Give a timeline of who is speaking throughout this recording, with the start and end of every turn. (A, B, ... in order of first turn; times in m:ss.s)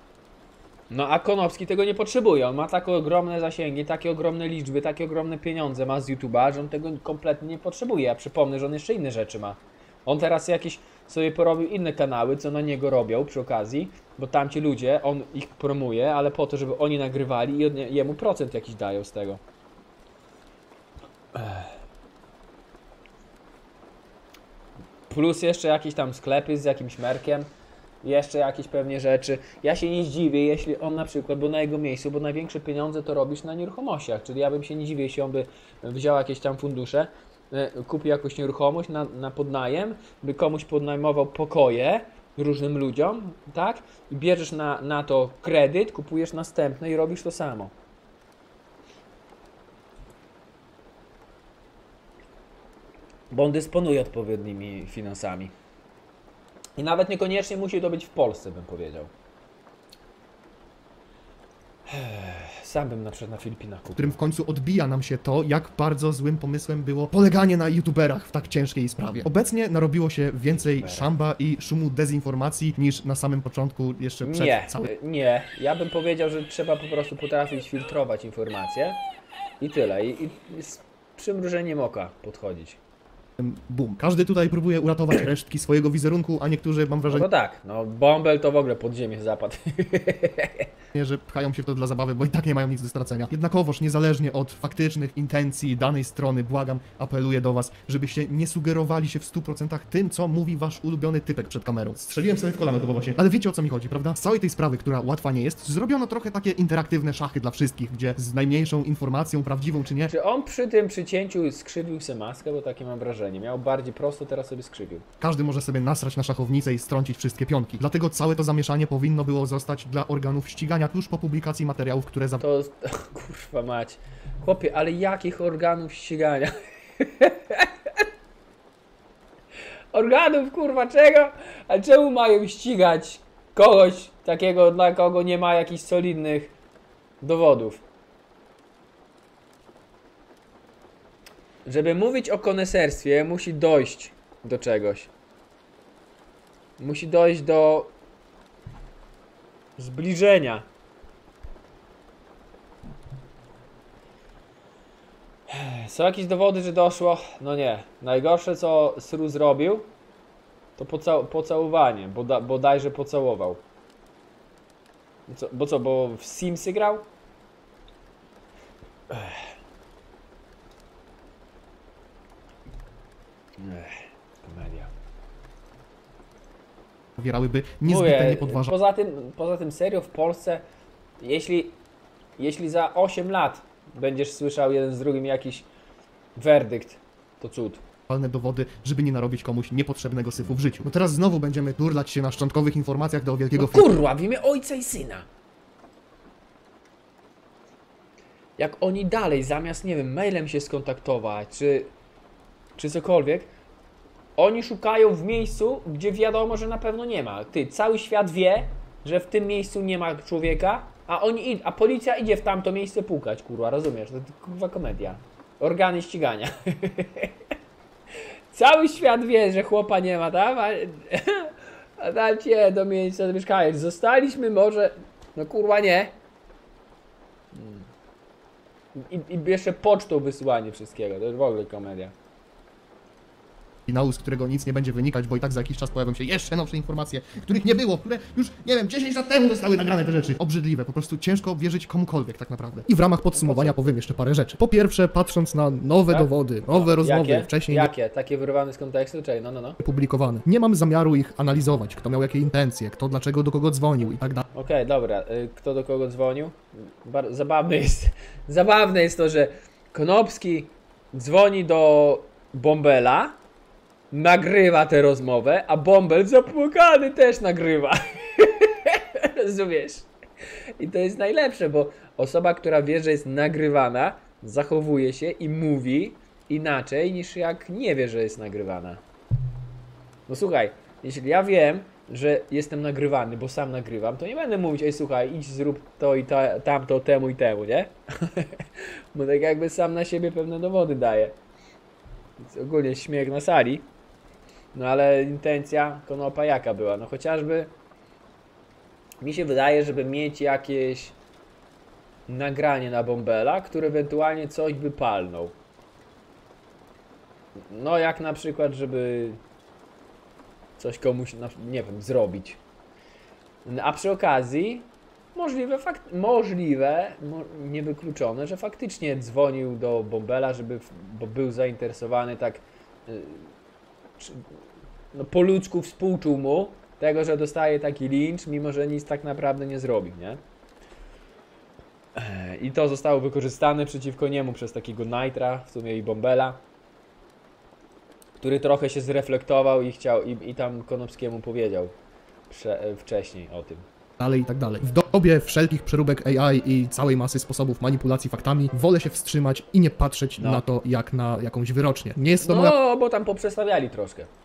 0:00.9-0:19.4 A
0:21.3-0:21.8 A
0:25.1-0:27.5 A
0:28.0-0:47.7 A
0:53.3-0:55.5 A
0:56.8-0:59.1 A
1:01.9-1:04.2 A
1:04.0-1:14.9 B
1:10.8-1:11.1 A
1:14.2-1:19.0 A
1:19.6-1:22.8 A
1:23.4-1:27.3 B
1:27.1-1:30.7 A
1:30.9-1:50.1 B
1:50.1-1:55.0 A
1:55.2-2:02.4 B
2:02.4-2:08.0 A
2:09.9-2:16.5 A
2:17.2-2:17.8 A
2:21.6-2:25.1 A
2:26.8-2:27.9 A
2:29.8-2:30.6 A
2:35.5-2:39.9 A
2:40.8-2:43.6 A
2:45.3-2:47.1 A
2:49.1-2:49.5 A
2:53.6-2:54.9 A
2:57.2-2:58.7 B
2:57.8-3:00.6 A
3:01.2-3:01.8 A
3:02.4-3:05.6 A
3:06.4-3:07.8 A
3:08.1-3:13.9 B
3:13.6-3:15.2 A
3:18.6-3:21.9 A
3:22.8-3:23.5 A
3:24.4-3:37.3 A
3:38.5-3:46.1 A
3:47.5-3:47.8 A
3:48.9-3:52.1 A
3:53.8-4:07.9 B
4:03.4-4:03.7 A
4:06.1-4:09.8 A
4:09.8-4:14.4 B
4:14.5-4:23.4 A
4:24.1-4:30.1 A
4:30.8-4:39.0 A
4:40.3-4:51.4 A
4:52.4-4:53.8 A
4:54.7-4:57.7 A
4:59.2-5:01.1 A
5:02.3-5:05.5 A
5:07.6-5:09.4 A
5:10.8-5:12.6 A
5:13.6-5:23.5 A
5:24.2-5:24.4 A
5:25.1-5:30.4 A
5:32.2-5:36.6 A
5:38.4-5:41.9 A
5:42.5-5:43.8 A
5:44.2-5:52.8 B
5:52.4-5:54.3 A